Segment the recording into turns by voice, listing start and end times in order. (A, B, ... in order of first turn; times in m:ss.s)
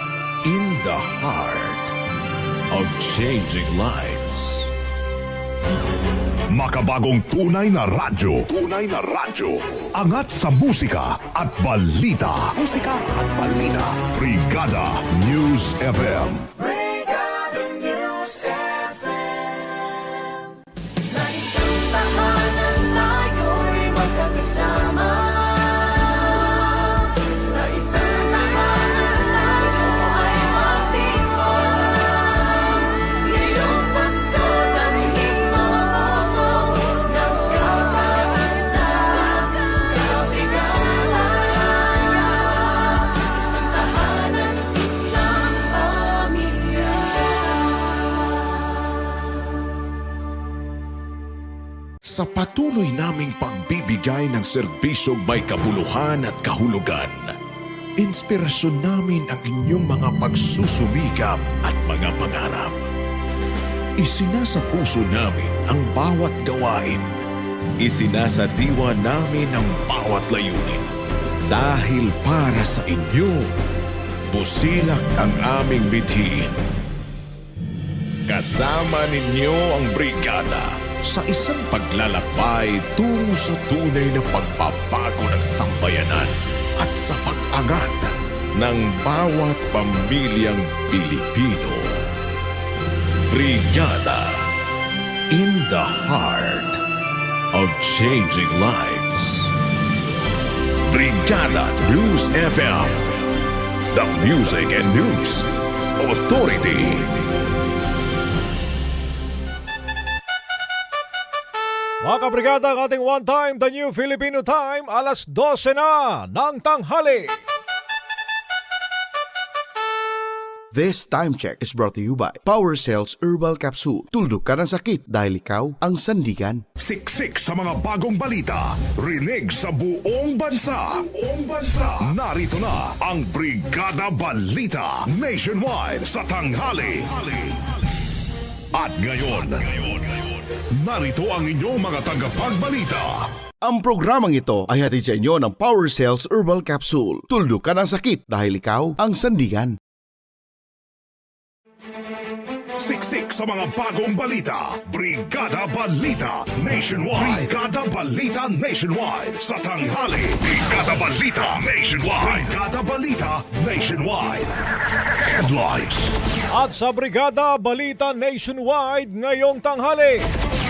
0:00.4-0:01.9 A
0:02.7-0:04.7 A
0:06.5-0:16.5 B
0:52.1-0:57.3 A
0:58.0-1:02.8 A
1:04.0-1:07.2 A
1:07.8-1:10.8 A
1:11.5-1:13.5 A
1:14.3-1:16.5 A
1:18.3-1:32.0 A
1:33.3-1:34.4 A
1:35.3-1:36.8 A
1:37.5-1:39.5 A
1:40.9-1:43.0 A
1:43.9-1:45.4 A
1:46.0-1:47.1 A
1:52.0-1:57.3 C
2:00.7-2:06.6 D
2:06.8-2:17.6 B
2:18.7-2:20.2 B
2:20.7-2:23.3 B
2:23.6-2:29.7 D
2:32.8-2:44.5 B
2:45.2-2:46.2 B
2:46.5-2:50.2 C